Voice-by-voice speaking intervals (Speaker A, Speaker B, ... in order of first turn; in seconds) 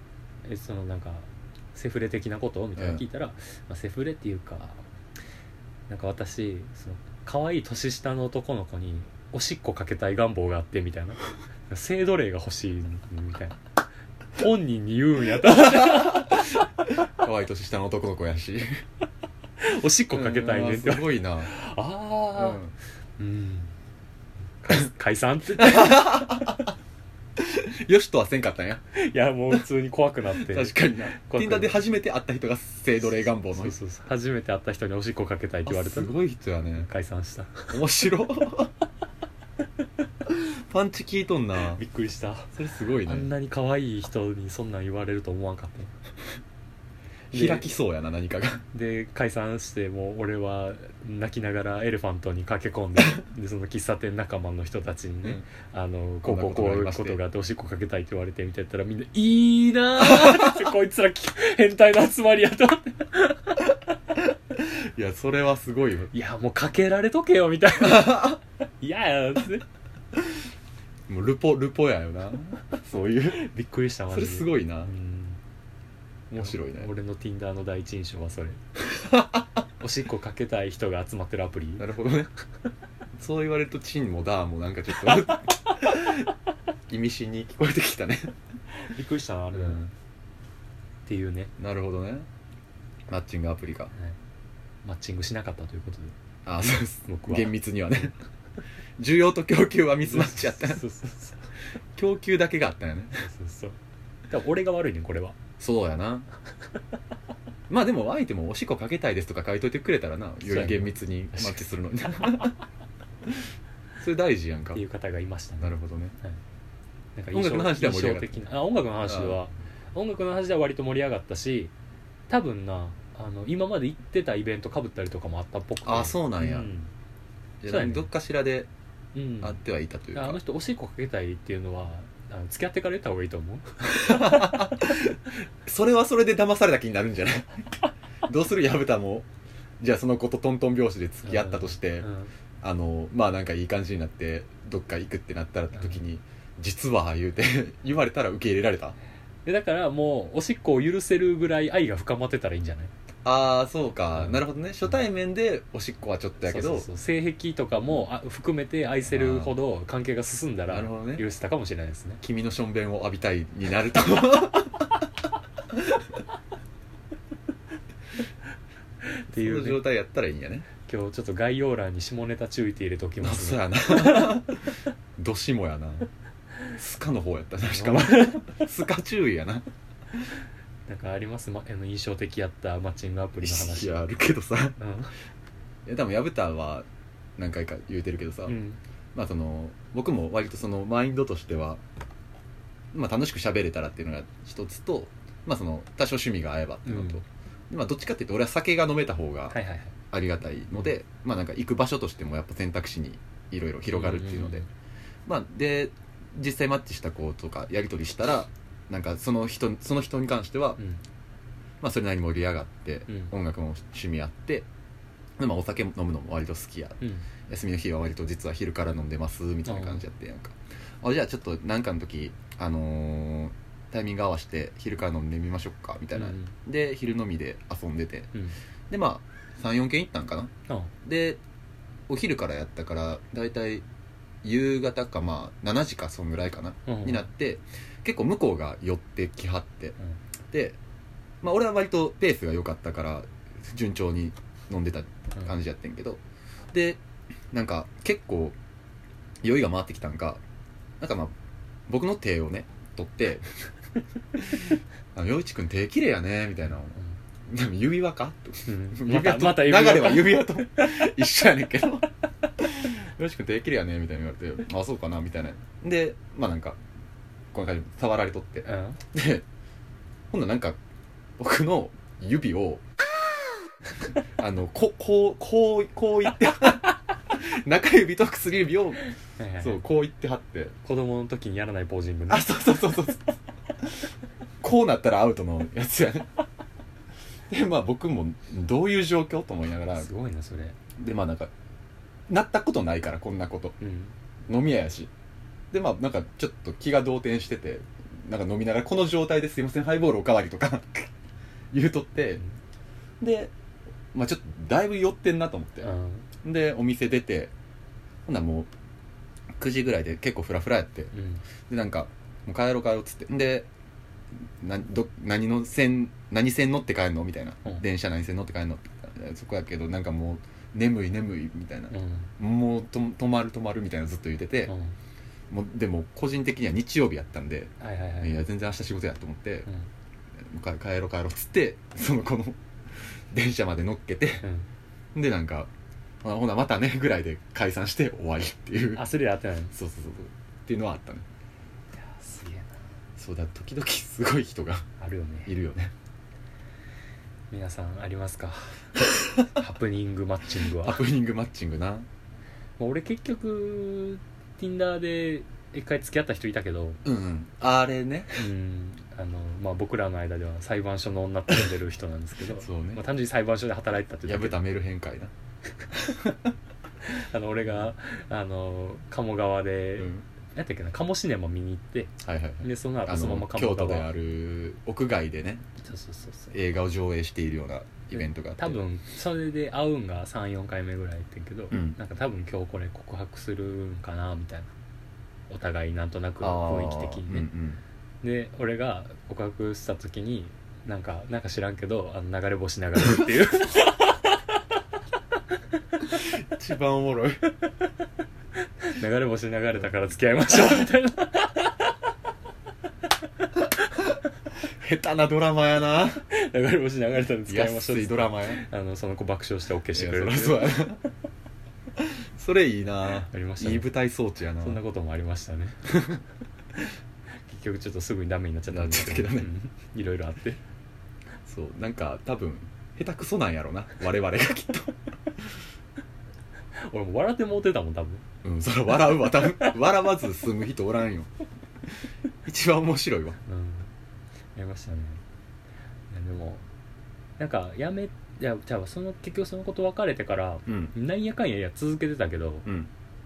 Speaker A: 0.5-4.8, 5.9-13.6, 14.3-16.5, 19.6-22.6, 23.2-23.7, 24.6-26.6, 28.9-31.8, 33.5-36.1, 36.8-37.8, 41.7-42.5, 43.1-45.9, 47.3-47.7, 48.7-63.7, 66.1-69.7, 73.3-75.4, 76.3-78.6, 79.8-81.9, 88.8-89.8, 91.1-91.5, 94.8-96.2, 97.1-97.5, 100.1-101.5, 103.2-103.8, 104.3-105.4, 110.4-111.6, 112.2-112.5, 114.7-116.4, 117.2-121.7, 122.3-126.9, 127.7-128.1, 129.1-129.6, 130.1-135.0, 141.2-142.3, 149.5-152.9, 154.2-154.4, 156.4-162.2, 169.1-169.8, 170.9-174.4, 177.7-178.7, 180.9-184.0, 184.8-185.1, 188.5-188.8, 196.9-197.2, 199.5-199.9, 203.9-204.7, 217.0-217.3, 219.7-220.0, 226.2-226.5, 236.9-237.2, 258.7-260.9, 268.7-269.0, 279.4-279.8, 280.8-282.6, 290.0-290.8, 293.8-294.1, 305.8-306.3, 311.1-311.4, 321.9-322.3, 324.7-324.9, 327.8-328.4, 338.9-339.7, 342.0-342.8, 345.0-345.5, 347.5-351.0, 352.8-357.0, 358.4-364.6, 367.0-374.1, 375.8-376.6, 378.1-384.7, 385.5-387.5, 388.2-394.4, 398.8-402.0, 406.3-410.9, 413.3-413.9, 414.6-415.8, 417.5-420.6, 426.8-428.2, 433.5-433.9, 434.6-435.2, 436.1-436.6, 437.4-442.7
Speaker B: 2.8-3.0, 15.4-16.5, 17.1-18.8, 20.1-21.5, 22.4-22.7, 25.6-26.7, 27.4-28.8, 30.4-33.8, 35.7-36.9, 37.7-38.7, 40.3-41.8, 42.5-43.3, 47.3-48.6, 56.2-57.2, 60.0-60.7, 64.5-66.1, 67.8-68.4, 71.1-73.4, 74.1-74.9, 76.4-76.9, 78.9-79.5, 81.8-82.3, 83.2-86.3, 86.9-88.3, 89.5-89.9, 91.6-92.3, 93.1-93.9, 96.5-98.1, 99.0-100.8, 102.0-103.3, 105.6-106.3, 107.7-112.5, 114.0-114.8, 115.6-116.2, 117.3-118.5, 119.0-119.4, 125.8-126.7, 127.6-128.7, 129.4-130.4, 133.8-137.6, 138.2-139.3, 139.8-142.1, 142.6-149.0, 153.2-156.9, 159.1-159.5, 160.7-161.2, 162.2-165.0, 165.7-166.0, 169.3-170.7, 173.2-174.6, 175.2-176.1, 176.7-179.7, 183.4-184.8, 185.9-186.9, 187.4-188.6, 189.1-191.8, 192.9-199.6, 200.1-204.7, 205.3-210.8, 211.8-214.7, 215.4-228.3, 228.9-230.5, 231.0-231.4, 232.1-233.8, 234.4-240.0, 240.5-240.8, 241.4-246.2, 246.7-248.6, 249.4-250.4, 251.0-251.3, 251.9-253.5, 254.3-266.8, 267.5-269.4, 270.3-270.8, 271.4-272.9, 274.4-279.1, 279.6-280.7, 282.3-283.4, 284.6-286.4, 287.5-290.1, 291.0-291.5, 292.3-293.8, 294.5-295.1, 295.7-301.1, 301.7-302.4, 303.2-303.5, 304.1-305.9, 306.4-307.5, 308.3-308.7, 309.6-311.1, 311.7-313.7, 314.6-324.7, 325.5-329.7, 330.4-334.4, 335.1-335.7, 336.2-339.1, 339.7-341.3, 343.2-344.9, 345.5-345.9, 349.1-349.4, 350.7-352.1, 357.1-358.5, 362.5-363.0, 364.3-365.3, 365.9-366.5, 370.0-370.2, 372.2-375.7, 376.5-378.8, 381.7-382.0, 386.4-387.8, 396.3-397.5, 404.8-406.3, 407.5-408.6, 409.9-411.0, 412.0-414.8, 415.9-416.2, 418.7-419.5, 421.5-425.5, 428.4-431.3, 432.4-433.4, 440.7-440.9, 442.7-442.9